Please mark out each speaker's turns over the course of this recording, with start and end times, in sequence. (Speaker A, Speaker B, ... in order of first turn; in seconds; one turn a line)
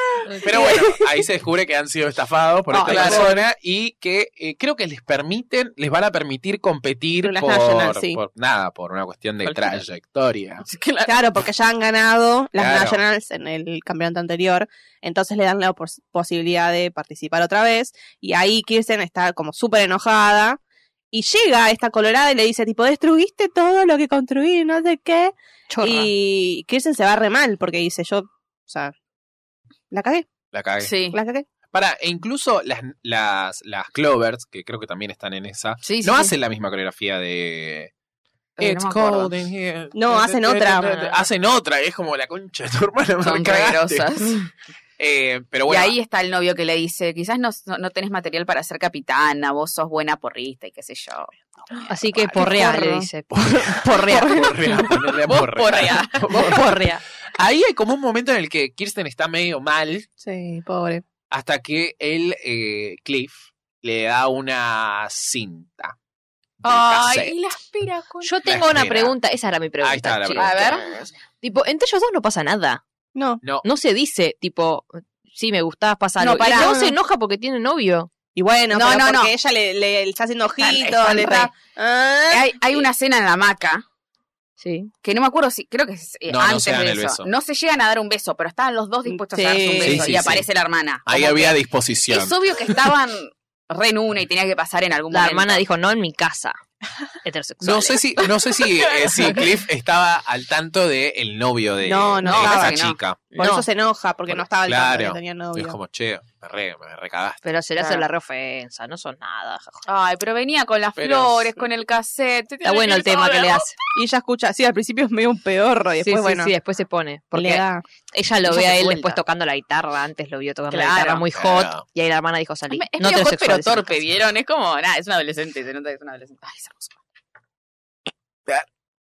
Speaker A: 0.3-0.8
Speaker B: 0.4-10.7
Speaker C: 0.4-1.0
Speaker C: 2.7-3.4
Speaker D: 2.8-3.3
Speaker C: 7.2-8.2
Speaker D: 9.4-9.8
Speaker D: 10.7-11.2
Speaker C: 11.1-20.6
Speaker B: 12.6-13.0
Speaker C: 21.1-28.9
Speaker A: 25.7-26.1
Speaker C: 29.9-30.3
Speaker B: 30.5-30.9
Speaker D: 30.8-31.2
Speaker C: 31.1-31.5
Speaker B: 31.7-37.9
Speaker D: 35.8-36.3
Speaker D: 38.6-39.3
Speaker B: 38.6-44.2
Speaker C: 39.9-41.1
Speaker D: 43.2-44.5
Speaker B: 45.0-46.0
Speaker D: 45.7-52.5
Speaker A: 51.9-54.8
Speaker C: 52.3-53.1
Speaker B: 53.3-60.1
Speaker C: 54.1-54.8
Speaker D: 55.3-56.6
Speaker A: 56.3-57.0
Speaker C: 60.2-61.0
Speaker B: 61.3-66.0
Speaker B: 66.6-67.4
Speaker D: 66.6-68.4
Speaker A: 68.2-70.8
Speaker B: 68.5-69.2
Speaker B: 69.8-70.9
Speaker D: 70.4-71.0
Speaker A: 71.4-72.8
Speaker C: 73.2-73.4
Speaker A: 73.6-78.1
Speaker C: 76.2-77.0
Speaker C: 78.4-82.9
Speaker D: 78.7-79.3
Speaker D: 80.6-81.5
Speaker D: 82.3-83.8
Speaker A: 84.6-84.9
Speaker D: 85.0-91.6
Speaker B: 86.3-87.3
Speaker C: 89.1-90.1
Speaker B: 89.8-90.5
Speaker B: 91.1-92.8
Speaker D: 92.1-95.6
Speaker A: 95.1-96.6
Speaker A: 97.2-98.3
Speaker B: 97.6-103.3
Speaker D: 99.0-99.5
Speaker C: 101.8-102.8
Speaker D: 102.2-103.0
Speaker A: 103.3-103.7
Speaker C: 103.4-105.8
Speaker B: 104.3-107.4
Speaker A: 107.4-109.8
Speaker D: 107.8-108.1
Speaker D: 109.9-113.7
Speaker B: 111.0-111.5
Speaker A: 112.6-113.8
Speaker C: 113.9-116.5
Speaker A: 116.0-124.1
Speaker C: 117.3-117.8
Speaker D: 118.5-119.2
Speaker D: 120.7-121.3
Speaker B: 121.3-121.8
Speaker D: 122.7-127.0